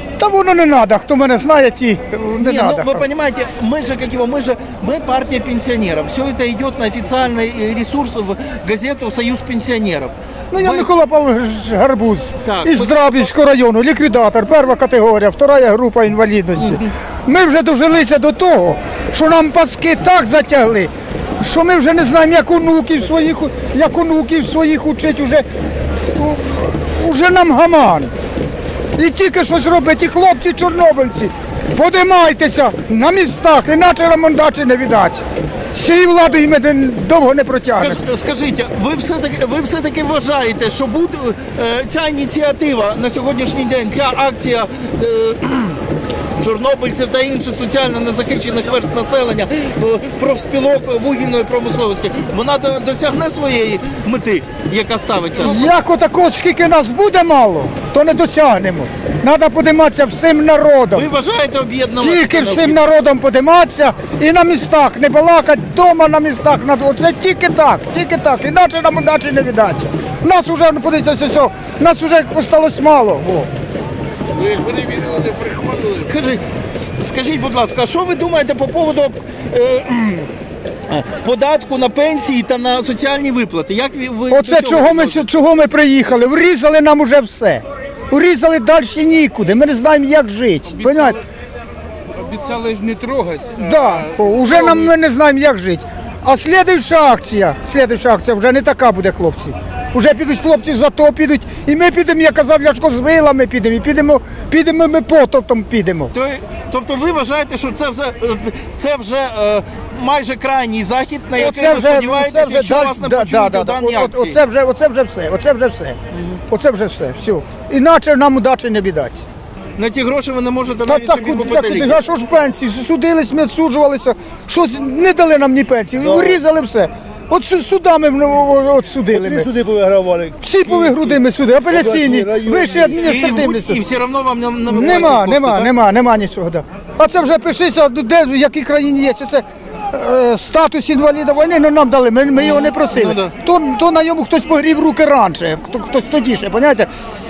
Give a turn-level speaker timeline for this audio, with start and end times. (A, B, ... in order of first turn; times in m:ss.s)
0:00.2-0:03.1 A
0:02.4-0:10.9 B
0:10.5-0:25.5 A
0:12.4-0:13.0 B
0:26.1-0:28.1 A
0:29.0-0:38.0 A
0:37.8-0:45.8 B
0:46.4-0:55.8 B
0:55.4-1:01.1 A
1:00.9-1:02.8 B
1:02.0-1:13.5 A
1:14.5-1:20.3 B
1:20.9-1:25.4 B
1:24.3-1:31.2 A
1:32.2-1:33.5 C
1:33.5-1:46.1 A
1:46.1-1:54.4 B
1:51.4-1:56.0 A
1:56.1-1:56.4 B
1:56.5-1:59.2 A
1:59.8-2:02.0 B
2:00.9-2:09.6 A
2:09.6-2:10.3 C
2:10.4-2:13.8 A
2:12.0-2:12.4 C
2:13.0-2:15.7 B
2:14.7-2:26.9 A
2:22.4-2:23.3 B